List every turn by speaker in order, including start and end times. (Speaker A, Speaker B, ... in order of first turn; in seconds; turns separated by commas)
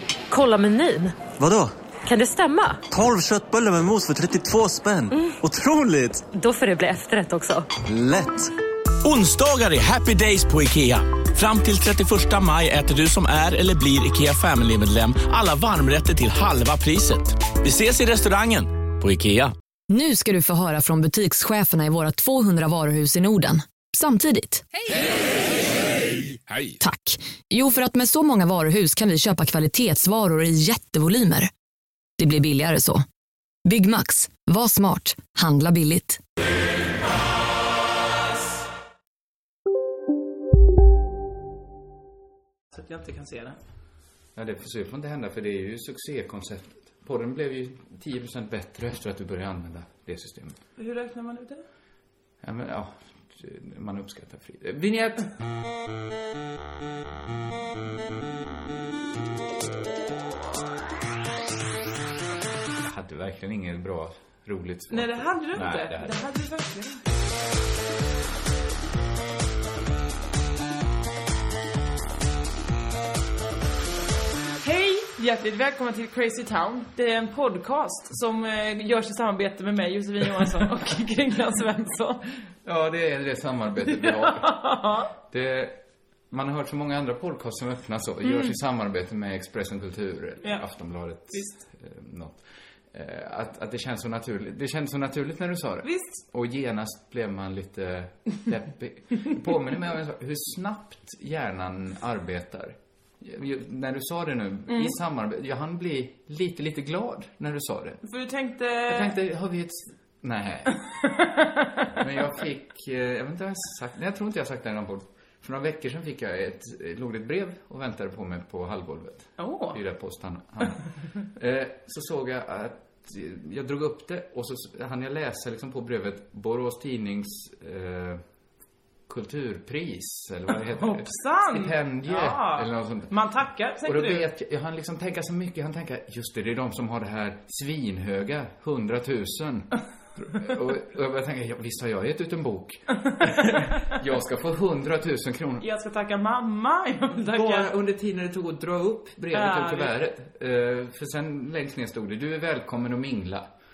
Speaker A: 0.3-1.2, Speaker B: 1.4-1.7, Speaker A: 2.0-2.9, Speaker B: 2.9-6.3, Speaker A: 6.3-7.7, Speaker B: 7.9-8.5, Speaker C: 9.0-19.5, Speaker D: 19.9-24.6, Speaker D: 26.8-31.5, Speaker D: 32.2-33.0, Speaker D: 33.6-36.2, Speaker E: 42.7-43.6, Speaker F: 44.4-50.6, Speaker E: 50.8-51.6, Speaker F: 52.4-55.3, Speaker F: 62.8-66.2, Speaker E: 64.9-67.0, Speaker E: 74.6-82.2, Speaker F: 82.6-84.6, Speaker E: 83.9-85.1, Speaker F: 85.2-85.8, Speaker F: 86.3-108.0, Speaker E: 88.2-88.5, Speaker E: 91.3-91.6, Speaker E: 95.8-96.2, Speaker E: 104.7-105.0, Speaker E: 108.0-109.2, Speaker F: 108.9-110.8, Speaker E: 111.0-111.9, Speaker F: 112.0-128.2, Speaker E: 119.4-119.8, Speaker F: 129.1-133.1, Speaker E: 130.7-134.3, Speaker F: 133.8-145.7, Speaker E: 145.6-147.7, Speaker F: 147.3-153.5, Speaker E: 149.3-149.9